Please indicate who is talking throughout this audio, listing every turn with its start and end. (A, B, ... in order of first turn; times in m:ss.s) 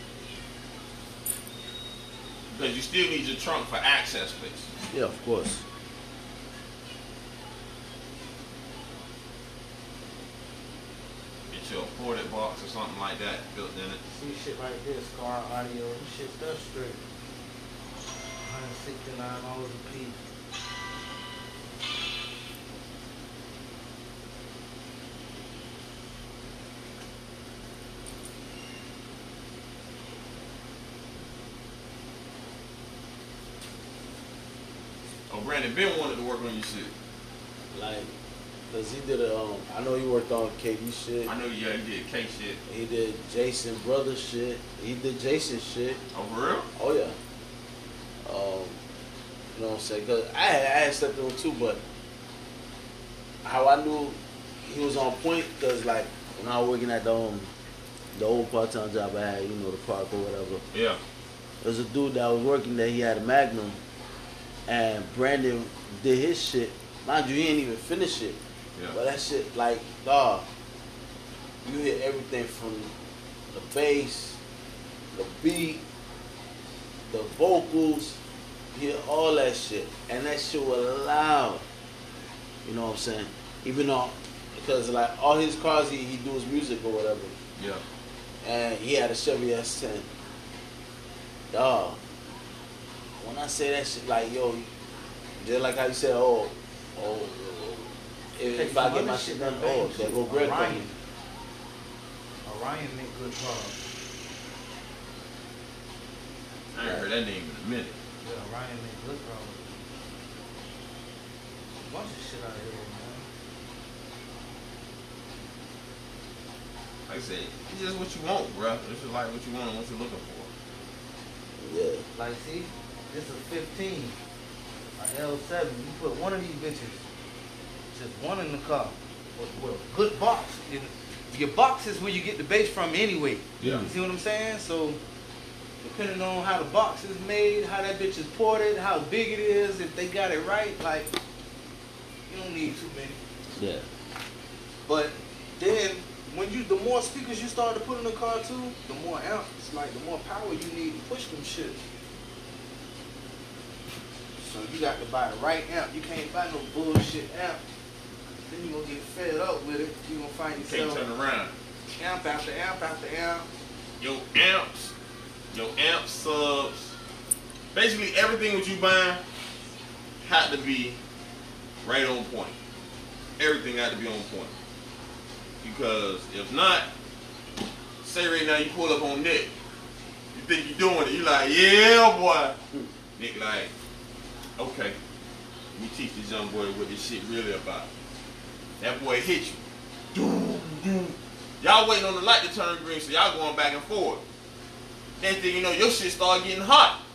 0:02.5-0:04.7 A
0:04.9-0:05.6 B
0:11.5-0:14.0 A
0:14.1-0:17.0 C
0:18.4-0:20.2 C
0:35.3-0:36.9 A
0:37.7-0:38.1 B
0:38.7-0:41.3 B
0:41.3-0:42.6 A
0:42.7-0:46.0 B
0:46.1-0:46.7 A
0:46.8-0:47.2 B
0:48.2-0:48.8 B
0:49.5-0:51.8 B
0:53.4-0:57.5 B
0:58.1-1:00.6 B
1:00.7-1:01.0 A
1:01.6-1:03.8 B
1:04.7-1:08.4 B
1:08.9-1:10.5 B
1:11.6-1:12.9 B
1:13.5-1:14.4 B
1:15.1-1:15.8 B
1:17.1-1:18.2 B
1:18.7-1:21.6 B
1:22.6-1:27.4 B
1:27.6-1:27.8 A
1:28.4-1:30.1 B
1:31.5-1:32.0 B
1:33.2-1:34.7 B
1:35.4-1:40.9 B
1:38.5-1:41.0 C
1:42.4-1:43.8 C
1:46.7-1:48.0 A
1:46.8-1:47.1 B
1:48.2-1:49.8 C
1:51.8-1:53.3 C
1:57.1-2:00.5 A
2:01.6-2:02.1 B
2:02.2-2:04.2 C
2:05.0-2:07.0 C
2:07.9-2:15.0 C
2:13.6-2:13.9 A
2:13.6-2:13.9 B
2:15.8-2:21.1 C
2:22.3-2:23.2 C
2:23.5-2:23.9 B
2:24.9-2:31.8 C
2:34.4-2:37.6 C
2:38.5-2:41.0 C
2:40.6-2:41.5 A
2:42.0-2:43.5 C
2:44.0-2:44.9 A
2:45.5-2:46.9 A
2:47.7-2:49.2 A
2:50.2-2:51.0 A
2:51.8-2:52.6 A
2:53.4-2:54.5 A
2:55.6-2:56.9 A
2:58.0-2:59.5 A
3:00.3-3:02.6 A
3:03.2-3:03.7 A
3:04.6-3:05.0 A
3:05.8-3:07.9 A
3:08.8-3:09.6 A
3:10.1-3:14.2 A
3:15.2-3:17.0 A